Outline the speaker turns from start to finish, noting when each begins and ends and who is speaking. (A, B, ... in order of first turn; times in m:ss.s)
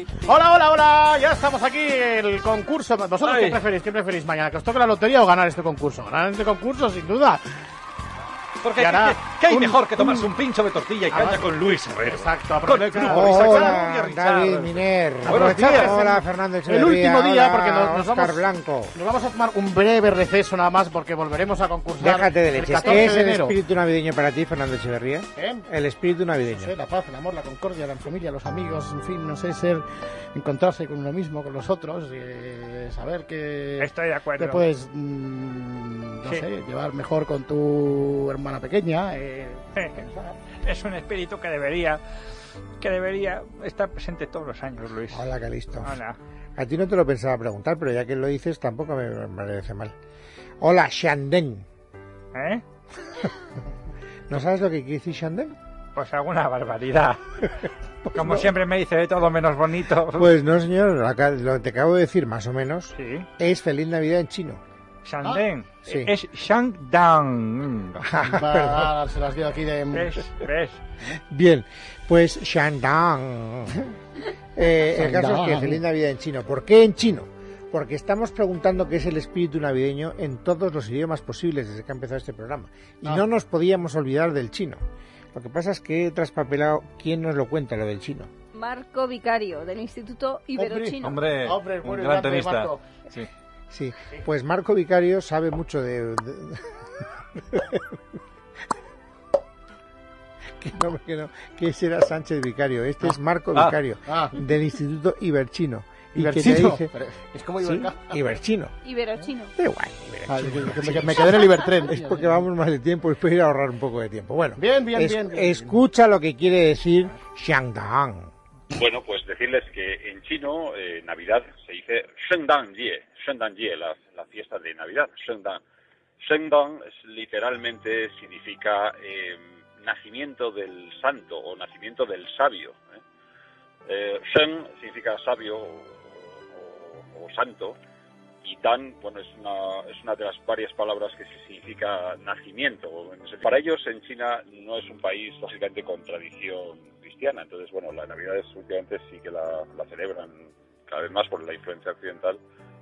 0:00.2-0:07.4 A
0:03.2-0:03.6 B
0:08.6-0:16.0 B
0:08.8-0:10.3 A
0:11.1-0:13.8 A
0:13.0-0:19.0 C
0:15.2-0:23.6 A
0:22.0-0:26.7 C
0:25.4-0:25.7 A
0:26.5-0:39.6 A
0:33.8-0:34.7 D
0:39.8-0:40.1 D
0:40.6-0:42.0 D
0:42.8-0:45.2 D
0:45.1-0:46.0 C
0:45.8-0:46.2 D
0:46.6-0:50.0 C
0:50.6-0:51.7 C
0:52.3-0:52.6 D
0:54.3-0:55.6 C
0:56.0-0:57.2 D
0:58.1-0:58.5 C
0:58.1-1:00.3 D
1:00.1-1:04.6 C
1:03.0-1:03.3 D
1:05.0-1:08.1 D
1:05.8-1:06.1 C
1:08.0-1:08.9 C
1:08.3-1:10.1 A
1:09.9-1:10.8 D
1:11.3-1:13.9 C
1:14.6-1:24.8 C
1:15.0-1:15.8 A
1:25.3-1:28.3 C
1:28.5-1:31.3 E
1:30.6-1:32.8 A
1:31.0-1:33.3 B
1:33.7-1:36.7 C
1:37.4-1:37.8 C
1:40.6-1:46.9 C
1:44.1-1:44.4 A
1:46.2-1:48.2 A
1:47.6-1:48.8 C
1:48.8-1:49.5 E
1:49.6-1:58.3 C
1:50.3-1:52.3 A
1:54.6-1:55.8 A
1:58.7-2:05.6 F
2:06.2-2:13.0 F
2:13.9-2:17.8 F
2:18.4-2:32.4 F